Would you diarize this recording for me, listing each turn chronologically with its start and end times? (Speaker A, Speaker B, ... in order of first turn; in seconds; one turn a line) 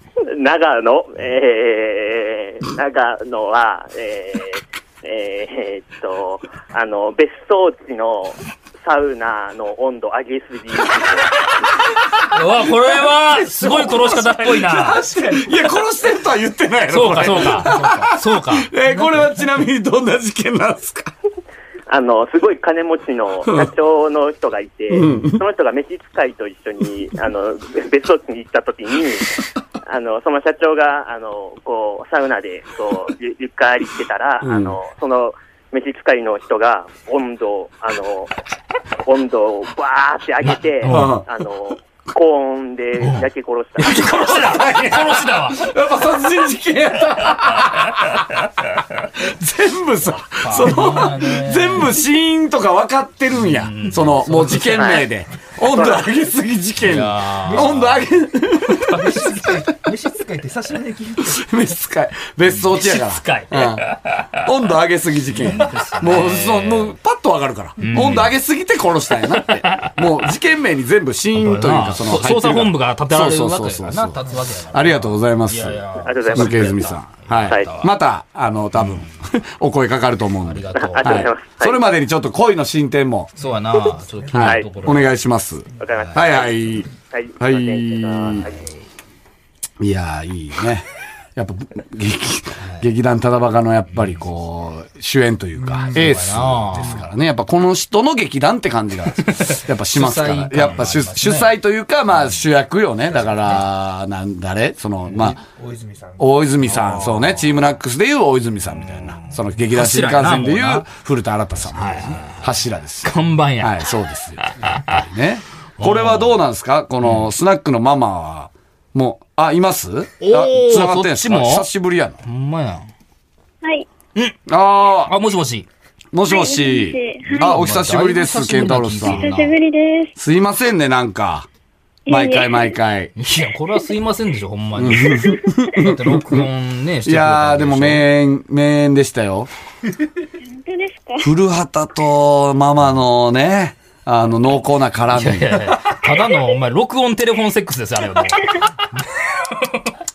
Speaker A: 0.3-11.6
Speaker B: 12.2-15.1
Speaker C: 13.3-21.1
Speaker D: 14.8-15.5
Speaker B: 16.9-18.7
Speaker D: 17.6-18.1
Speaker D: 18.9-19.5
Speaker A: 21.9-38.3
Speaker C: 23.4-23.7
Speaker C: 24.9-25.4
Speaker C: 34.4-34.8
Speaker A: 39.0-44.4
Speaker B: 40.4-41.2
Speaker C: 40.9-41.2
Speaker B: 43.0-43.3
Speaker B: 43.8-45.7
Speaker C: 43.8-48.2
Speaker C: 49.2-59.0
Speaker B: 50.4-52.0
Speaker B: 53.4-55.0
Speaker A: 54.8-55.0
Speaker A: 55.7-56.0
Speaker B: 56.8-58.0
Speaker D: 57.5-58.0
Speaker D: 58.8-61.4
Speaker C: 61.4-63.9
Speaker B: 62.5-64.5
Speaker C: 64.4-83.3
Speaker B: 65.3-67.0
Speaker D: 65.5-65.7
Speaker B: 67.8-68.3
Speaker B: 69.6-69.9
Speaker B: 71.3-77.9
Speaker A: 76.0-76.8
Speaker B: 78.8-79.1
Speaker B: 80.4-81.3
Speaker A: 80.8-81.8
Speaker B: 83.4-85.1
Speaker D: 83.4-84.3
Speaker C: 84.3-88.5
Speaker A: 84.3-84.7
Speaker A: 85.8-88.6
Speaker B: 88.5-88.8
Speaker C: 89.8-105.4
Speaker B: 92.6-92.9
Speaker D: 95.6-97.1
Speaker B: 95.9-97.0
Speaker B: 99.2-101.5
Speaker D: 105.1-106.5
Speaker C: 106.2-122.2
Speaker B: 106.7-107.4
Speaker B: 108.8-110.9
Speaker B: 111.7-112.4
Speaker B: 113.0-115.0
Speaker B: 115.8-116.4
Speaker B: 117.0-117.3
Speaker B: 120.2-121.7
Speaker B: 122.2-122.9
Speaker C: 124.5-125.1
Speaker B: 125.1-125.7
Speaker C: 126.1-129.3
Speaker E: 126.3-127.6
Speaker B: 127.3-129.6
Speaker E: 129.1-130.2
Speaker C: 130.2-131.5
Speaker E: 132.1-132.8
Speaker C: 132.1-133.1
Speaker B: 133.2-138.1
Speaker C: 134.8-136.5
Speaker C: 137.1-139.5
Speaker E: 140.4-141.3
Speaker C: 141.2-145.8
Speaker B: 145.1-150.0